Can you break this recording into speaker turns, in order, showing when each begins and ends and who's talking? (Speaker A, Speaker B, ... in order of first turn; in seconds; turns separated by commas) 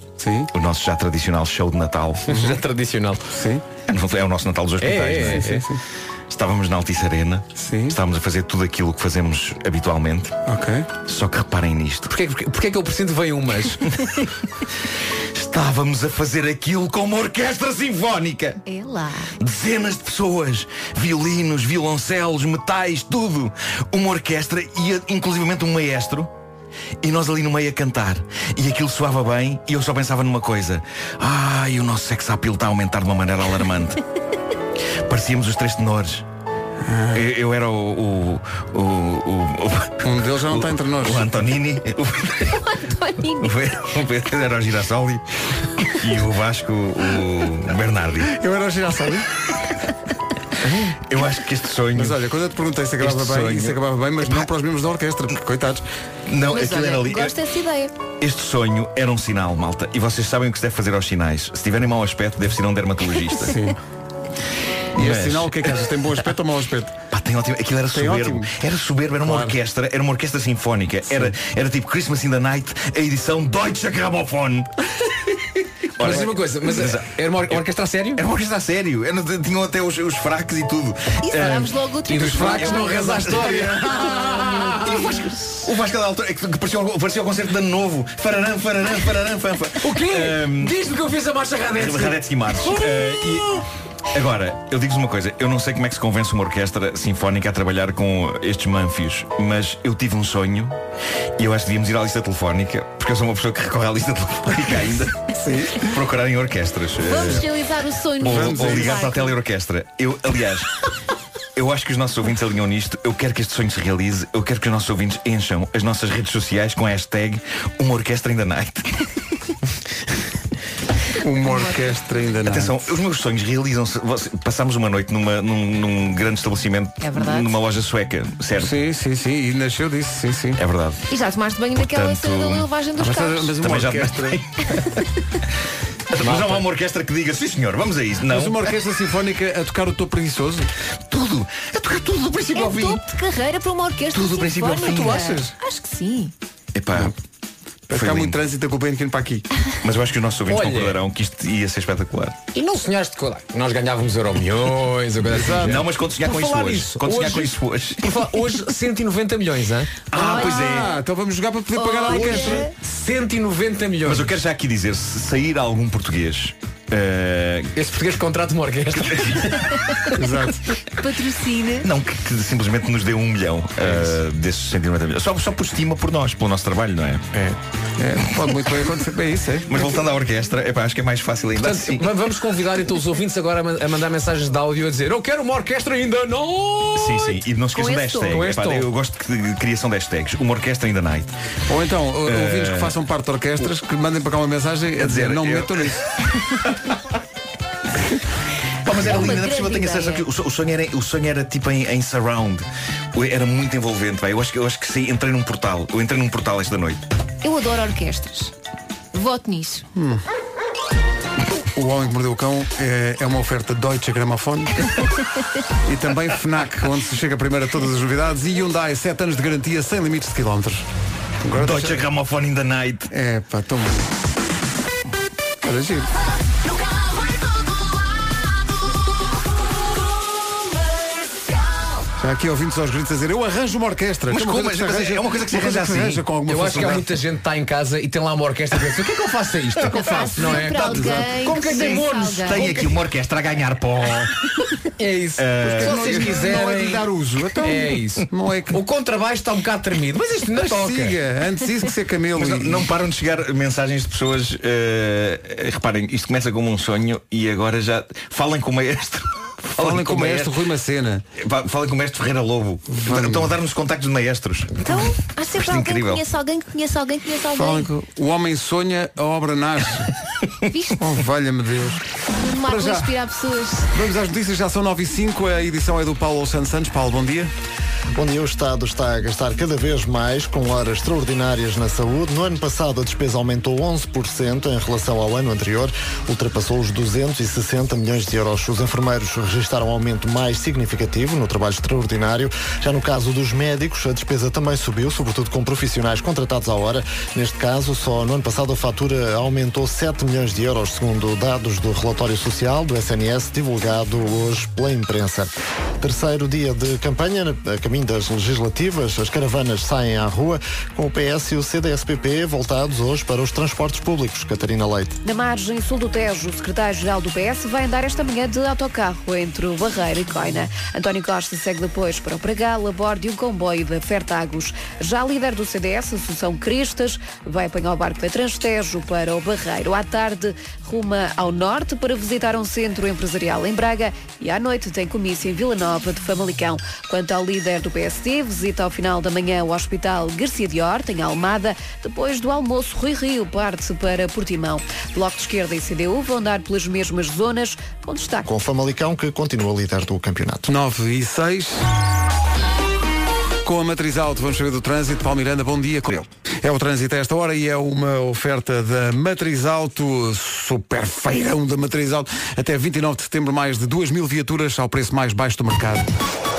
Speaker A: 0.2-0.5, Speaker B: 0.5-2.3, Speaker A: 2.3-2.6, Speaker C: 2.3-3.2, Speaker A: 3.3-3.6, Speaker B: 3.9-5.4, Speaker C: 4.8-5.7, Speaker A: 5.2-5.8, Speaker B: 6.3-10.3, Speaker A: 7.5-8.0, Speaker A: 10.4-10.9, Speaker B: 11.0-12.1, Speaker C: 12.1-13.8, Speaker B: 15.3-18.6, Speaker D: 18.6-19.3, Speaker B: 19.4-26.3, Speaker B: 27.0-34.0, Speaker B: 35.1-36.2, Speaker A: 36.8-37.2, Speaker B: 37.1-42.6, Speaker A: 40.0-41.3, Speaker D: 42.5-43.5, Speaker B: 43.4-45.2, Speaker B: 45.8-48.4, Speaker A: 48.3-49.3, Speaker B: 50.9-52.2, Speaker A: 51.9-55.9, Speaker B: 53.0-54.4, Speaker B: 56.3-57.3, Speaker D: 56.5-57.9, Speaker B: 58.2-63.6, Speaker A: 63.4-63.8, Speaker A: 64.9-67.0, Speaker B: 64.9-65.8, Speaker B: 67.1-74.7, Speaker A: 67.9-68.6, Speaker A: 69.2-69.5, Speaker B: 76.0-77.6, Speaker C: 76.0-78.2, Speaker B: 78.1-84.0, Speaker D: 81.2-83.4, Speaker C: 82.1-85.2, Speaker B: 84.8-90.7, Speaker C: 89.8-93.4, Speaker B: 91.7-93.5, Speaker B: 94.1-100.8, Speaker B: 101.4-105.2, Speaker A: 105.3-105.9, Speaker B: 105.8-107.5, Speaker D: 107.0-109.4, Speaker B: 108.2-110.7, Speaker A: 108.2-109.0, Speaker B: 111.5-118.9, Speaker A: 121.2-122.8, Speaker D: 121.4-121.8, Speaker B: 122.4-128.7, Speaker D: 127.0-127.5, Speaker A: 128.6-130.6, Speaker B: 130.6-131.0, Speaker D: 131.1-133.6, Speaker B: 131.8-132.7, Speaker A: 133.0-134.4, Speaker B: 133.6-134.8, Speaker B: 136.1-138.7, Speaker C: 136.2-136.6, Speaker A: 138.3-140.7, Speaker B: 141.1-143.0, Speaker D: 142.5-146.3, Speaker B: 144.1-145.2, Speaker A: 144.7-145.5, Speaker B: 146.7-147.1, Speaker A: 147.9-149.4, Speaker B: 147.9-148.4, Speaker B: 149.8-152.3, Speaker C: 150.5-151.0, Speaker C: 152.5-160.0, Speaker A: 155.3-155.8, Speaker B: 155.6-158.0, Speaker B: 160.1-160.9, Speaker D: 160.1-160.8, Speaker A: 160.1-162.7, Speaker D: 161.7-162.7, Speaker C: 162.2-164.3, Speaker B: 164.0-167.7, Speaker C: 167.7-169.4, Speaker B: 169.0-169.5, Speaker A: 170.2-170.6, Speaker D: 170.8-171.9, Speaker B: 171.8-177.2, Speaker A: 177.3-179.8, Speaker B: 179.7-182.0, Speaker C: 181.6-187.4, Speaker B: 186.9-191.3, Speaker D: 187.7-188.4, Speaker C: 188.3-188.9, Speaker A: 191.7-196.0, Speaker B: 192.3-192.9, Speaker B: 195.0-196.7, Speaker B: 198.8-207.0, Speaker D: 198.9-200.2, Speaker D: 207.4-208.5, Speaker D: 209.1-209.8, Speaker A: 209.9-210.2, Speaker A: 211.7-214.9, Speaker A: 215.8-220.9, Speaker A: 221.4-222.0, Speaker B: 221.6-223.1, Speaker A: 223.1-224.1, Speaker A: 225.6-226.1, Speaker A: 232.2-237.2, Speaker B: 234.3-236.3, Speaker C: 236.4-242.8, Speaker D: 239.9-242.7, Speaker A: 239.9-241.3, Speaker B: 242.4-244.3, Speaker C: 245.0-247.1, Speaker B: 245.4-246.2, Speaker A: 245.6-248.8, Speaker C: 247.6-251.2, Speaker A: 250.5-252.9, Speaker B: 252.3-260.5, Speaker A: 259.8-261.2, Speaker B: 261.4-264.9, Speaker A: 262.9-263.5, Speaker D: 264.8-267.9, Speaker B: 265.6-266.2, Speaker A: 267.5-270.1, Speaker D: 270.7-271.0, Speaker A: 271.0-272.0, Speaker D: 272.3-273.9, Speaker A: 272.6-273.1, Speaker A: 273.9-277.5, Speaker E: 278.1-305.5, Speaker E: 306.0-315.2, Speaker F: 315.2-348.4, Speaker E: 348.4-350.7, Speaker A: 350.7-351.9, Speaker A: 353.6-366.1